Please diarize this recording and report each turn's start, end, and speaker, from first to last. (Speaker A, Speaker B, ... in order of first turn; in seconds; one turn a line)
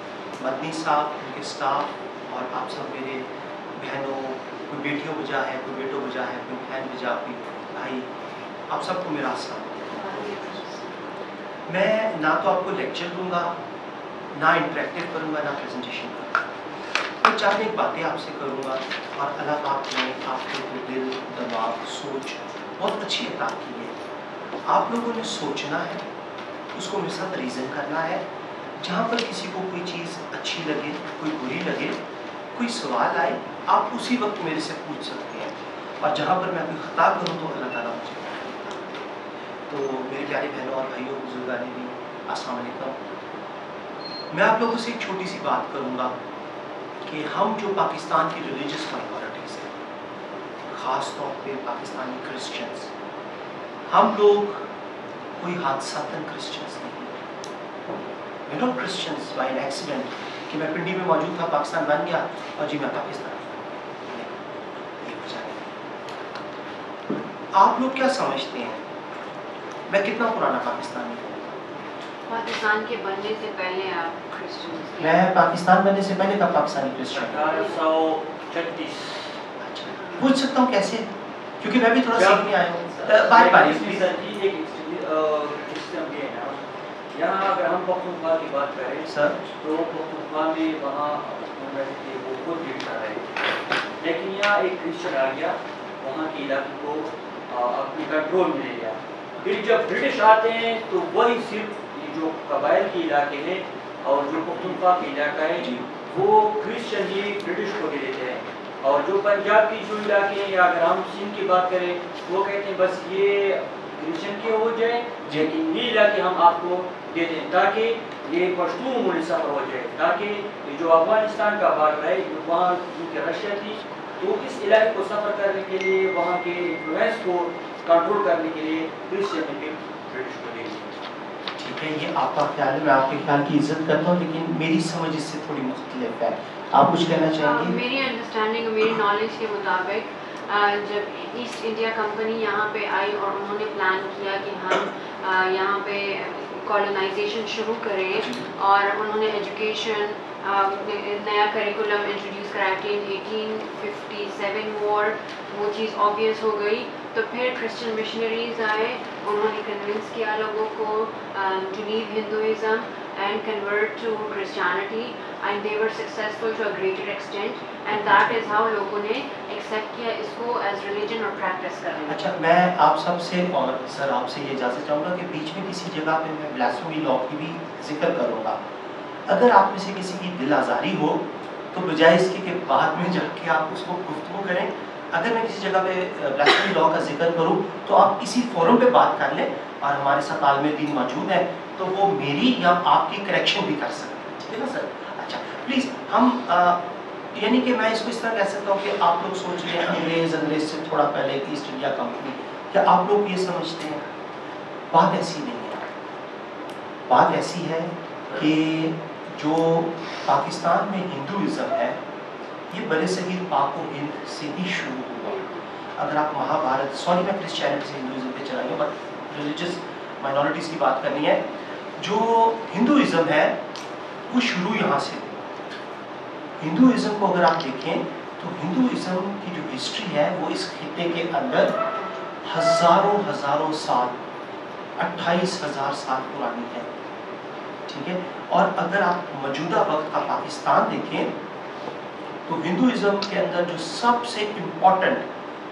Speaker A: 0.4-8.1
Speaker A: 8.7-10.7
Speaker B: 9.9-11.1
Speaker A: 11.7-13.5
Speaker A: 14.3-16.4
Speaker A: 17.2-24.0
Speaker A: 24.6-26.0
Speaker A: 26.7-28.2
Speaker A: 28.8-32.0
Speaker A: 32.5-38.9
Speaker A: 39.7-43.0
Speaker A: 44.3-46.1
Speaker A: 47.0-49.7
Speaker A: 50.7-52.9
Speaker A: 53.9-54.7
Speaker A: 55.4-57.1
Speaker A: 58.5-64.4
Speaker A: 65.0-65.8
Speaker A: 67.5-68.8
Speaker A: 69.9-71.8
Speaker B: 72.3-75.2
Speaker A: 75.0-77.6
Speaker C: 77.1-79.2
Speaker B: 77.5-77.8
Speaker A: 79.6-81.1
Speaker B: 79.9-80.3
Speaker A: 81.6-84.1
Speaker C: 82.1-86.6
Speaker C: 87.1-93.3
Speaker A: 89.0-89.4
Speaker C: 94.0-130.9
Speaker A: 105.6-106.0
Speaker A: 131.6-137.8
Speaker B: 137.2-172.3
Speaker A: 148.1-148.5
Speaker A: 167.9-168.5
Speaker A: 172.1-178.6
Speaker A: 179.3-196.8
Speaker A: 197.3-204.1
Speaker A: 204.9-205.9
Speaker A: 207.1-212.0
Speaker A: 212.7-221.4
Speaker B: 215.2-215.6
Speaker A: 222.0-223.6
Speaker A: 224.3-225.5
Speaker A: 226.6-231.7
Speaker A: 232.4-234.2
Speaker A: 235.0-236.9
Speaker A: 237.9-241.3
Speaker A: 242.4-245.3